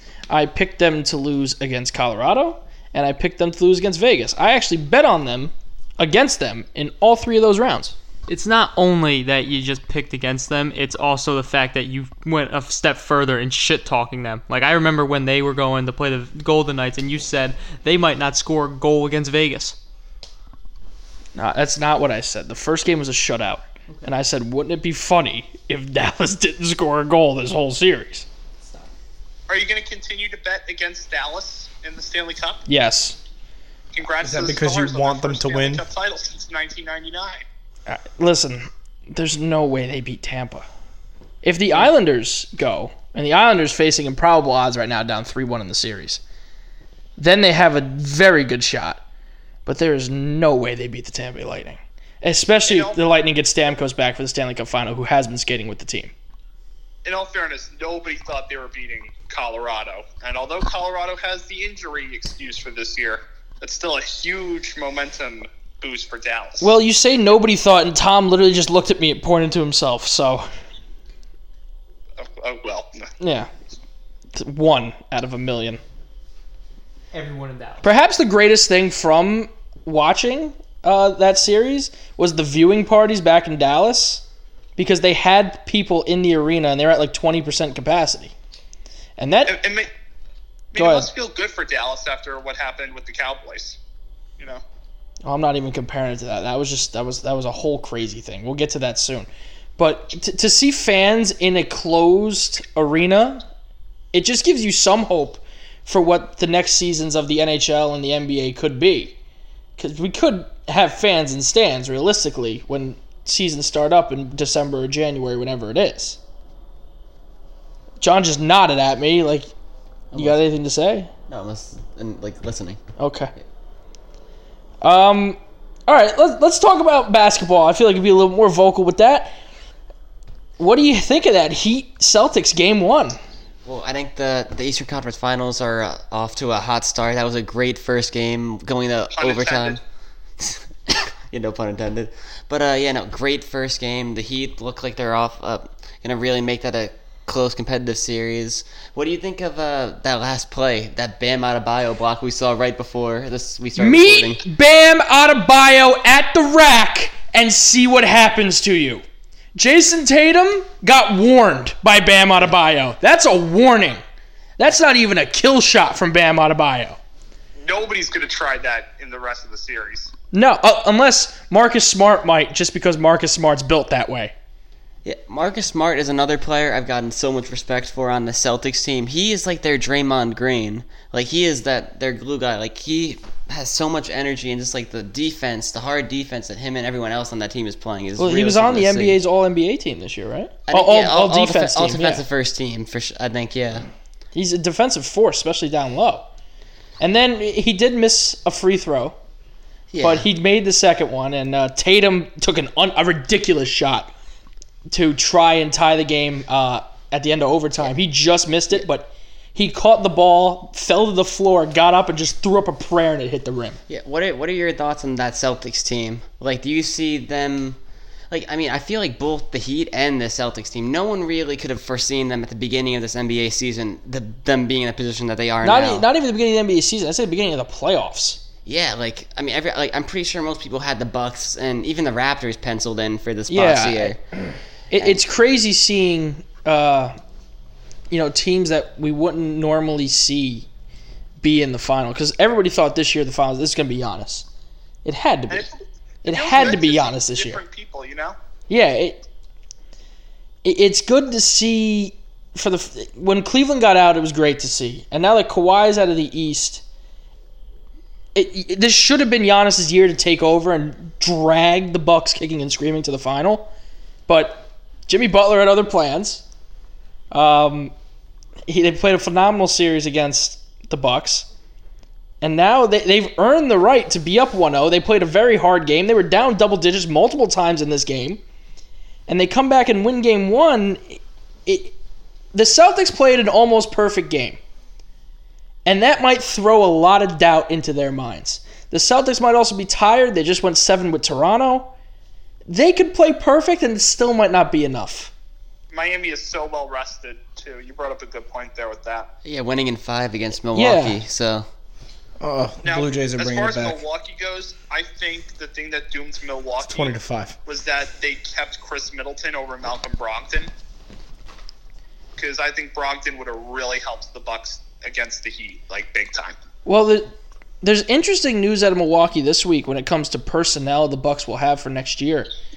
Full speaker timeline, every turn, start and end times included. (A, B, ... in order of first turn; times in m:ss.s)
0:00.3-0:08.0 A
0:08.3-0:19.8 B
0:21.3-0:28.3 A
0:23.9-0:24.1 B
0:28.6-0:28.9 B
0:29.5-0:32.6 C
0:32.7-0:33.2 A
0:33.9-0:37.4 C
0:34.2-0:35.8 D
0:37.8-0:40.7 A
0:41.4-0:46.2 A
0:47.2-0:49.0 A
0:49.6-0:56.1 A
0:52.6-0:53.0 C
0:57.0-1:06.7 C
1:06.6-1:10.5 A
1:12.2-1:13.0 C
1:13.2-1:13.5 A
1:14.3-1:15.8 A
1:17.1-1:17.9 B
1:17.8-1:24.2 A
1:24.8-1:28.3 A
1:29.2-1:29.6 A
1:29.4-1:29.9 C
1:30.7-1:33.8 C
1:30.8-1:31.1 A
1:35.2-1:43.4 A
1:44.1-1:49.2 A
1:49.8-1:56.2 A
1:58.0-1:59.5 A
2:00.1-2:00.4 E
2:00.1-2:01.1 A
2:01.3-2:02.8 E
2:03.0-2:03.3 A
2:04.8-2:09.4 A
2:10.6-2:13.2 A
2:13.6-2:19.8 E
2:19.1-2:19.8 C
2:20.4-2:34.4 E
2:33.8-2:39.0 A
2:39.6-2:44.0 A
2:44.6-2:47.0 A
2:47.6-2:50.1 C
2:50.3-2:54.3 A
2:55.0-3:09.2 E
3:08.2-3:12.2 A
3:10.7-3:13.9 E
3:14.3-3:16.3 A
3:17.0-3:19.2 A
3:19.9-3:20.2 E
3:20.0-3:24.1 A
3:24.9-3:33.8 A
3:33.9-3:37.8 E
3:38.3-3:46.1 E
3:45.6-3:48.4 A
3:48.6-3:54.2 E
3:53.5-3:54.2 A
3:54.9-3:55.2 E
3:54.9-3:57.2 A
3:58.1-4:00.6 A
4:01.4-4:04.4 A
4:05.0-4:05.7 A
4:05.5-4:08.4 C
4:06.2-4:07.6 A
4:08.7-4:09.2 A
4:10.6-4:16.8 A
4:18.3-4:23.7 A
4:24.3-4:26.4 A
4:27.3-4:27.9 A
4:28.7-4:31.5 A
4:32.4-4:38.4 A
4:39.3-4:41.9 A
4:42.5-4:44.6 A
4:45.8-4:51.9 A
4:52.7-4:55.3 A
4:55.9-4:59.3 C
4:59.4-5:01.6 E
5:00.7-5:01.2 A
5:02.4-5:04.0 D
5:02.8-5:10.7 C
5:06.8-5:07.6 D
5:12.4-5:16.6 C
5:16.8-5:22.5 A